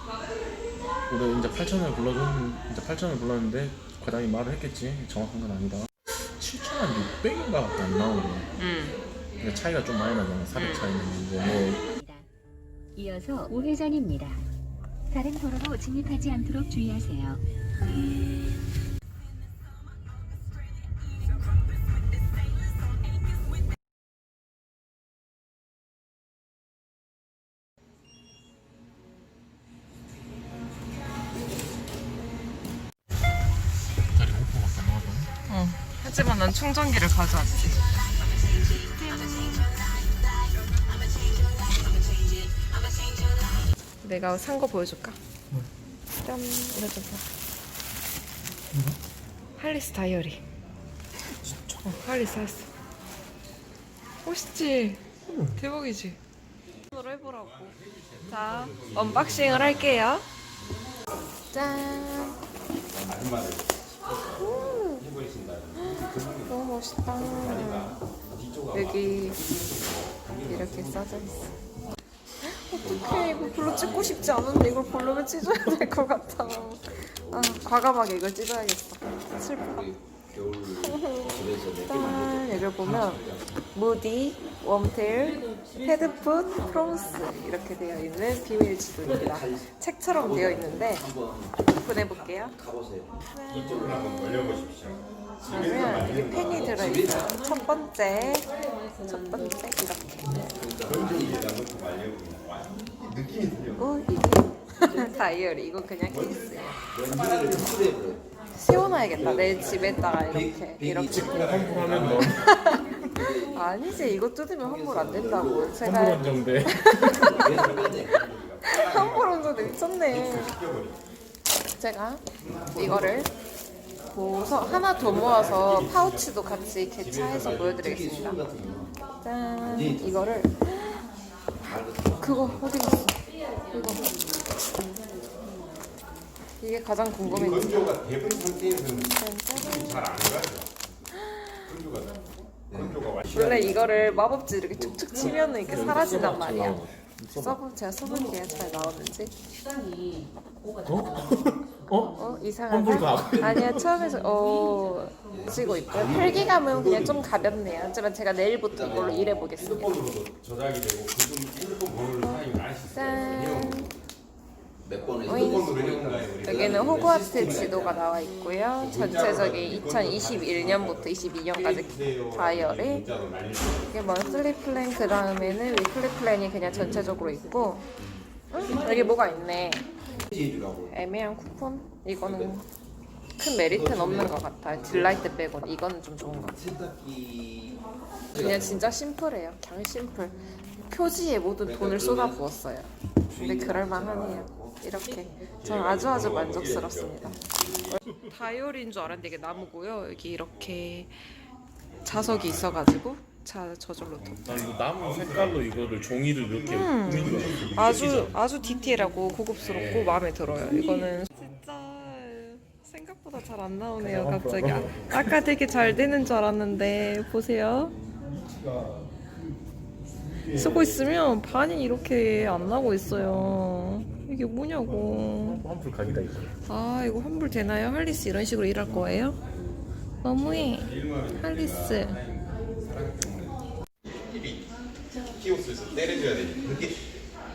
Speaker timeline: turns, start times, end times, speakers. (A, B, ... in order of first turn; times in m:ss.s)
0:01.1-0:08.5 A
0:08.6-0:09.0 B
0:09.4-0:11.8 A
0:10.5-0:10.9 B
0:11.9-0:12.3 C
0:12.9-0:14.5 C
0:15.1-0:17.4 C
0:34.1-0:35.3 A
0:35.5-0:37.9 B
0:38.8-0:39.5 B
0:44.0-0:45.2 B
0:46.1-0:47.2 B
0:49.6-0:50.4 B
0:51.6-0:52.7 B
0:54.2-0:56.2 B
0:56.9-1:00.2 B
0:57.2-1:00.0 D
1:01.5-1:02.4 B
1:02.3-1:03.1 E
1:03.0-1:11.6 D
1:04.2-1:05.0 B
1:05.8-1:08.0 B
1:08.7-1:09.4 B
1:10.4-1:11.6 B
1:12.4-1:19.8 B
1:12.8-1:14.9 E
1:16.0-1:17.7 D
1:19.6-1:23.5 E
1:20.7-1:31.1 B
1:29.0-1:33.2 E
1:31.7-1:32.6 B
1:33.3-1:34.7 B
1:33.5-1:36.8 D
1:35.4-1:40.5 B
1:36.5-1:37.3 E
1:40.4-1:41.5 E
1:40.8-1:43.9 D
1:43.8-1:46.8 B
1:46.0-1:48.0 D
1:46.9-1:48.2 E
1:48.5-1:51.3 B
1:49.0-1:50.3 D
1:49.1-1:52.1 E
1:51.1-1:52.7 A
1:51.1-1:52.7 D
1:52.2-2:00.6 B
1:53.1-1:53.7 E
1:54.6-1:55.8 E
1:55.8-1:57.4 A
1:56.0-1:56.7 D
1:57.1-1:58.2 E
1:57.4-2:01.0 D
2:01.7-2:03.3 B
2:02.4-2:03.2 D
2:04.1-2:08.4 B
2:04.4-2:06.4 D
2:06.9-2:08.0 D
2:07.8-2:08.9 E
2:09.2-2:11.0 B
2:09.6-2:10.4 E
2:11.6-2:12.6 E
2:12.2-2:13.2 B
2:13.7-2:14.1 B
2:16.6-2:18.0 B
2:17.2-2:20.7 D
2:18.8-2:20.2 B
2:21.2-2:21.7 B
2:21.6-2:24.3 D
2:22.7-2:23.0 E
2:23.2-2:26.8 B
2:25.6-2:27.6 A
2:27.3-2:29.4 B
2:30.8-2:32.2 A
2:32.2-2:40.0 B
2:32.7-2:33.9 A
2:35.3-2:36.6 E
2:35.9-2:37.5 D
2:38.7-2:39.4 E
2:38.8-2:44.0 D
2:42.1-2:43.9 B
2:44.8-2:48.0 E
2:45.2-2:45.7 B
2:45.2-2:47.7 D
2:46.4-2:53.1 B
2:48.8-2:54.0 D
2:53.9-2:57.8 B
2:56.7-2:57.0 D
2:58.5-2:59.9 B
3:00.3-3:00.9 E
3:00.9-3:02.6 B
3:02.3-3:02.5 E
3:03.4-3:06.6 B
3:03.7-3:05.3 E
3:06.4-3:07.8 E
3:08.3-3:17.3 B
3:08.3-3:08.8 E
3:11.6-3:12.4 E
3:13.3-3:14.8 E
3:15.5-3:18.0 D
3:18.2-3:21.1 B
3:21.9-3:22.9 D
3:22.0-3:24.5 B
3:24.1-3:28.4 D
3:24.4-3:28.3 A
3:26.7-3:38.0 B
3:29.6-3:30.2 D
3:34.0-3:35.2 A
3:40.4-3:45.6 B
3:45.4-3:46.5 A
3:46.6-3:49.4 B
3:48.8-3:49.3 D
3:50.2-3:52.2 B
3:50.4-3:57.1 D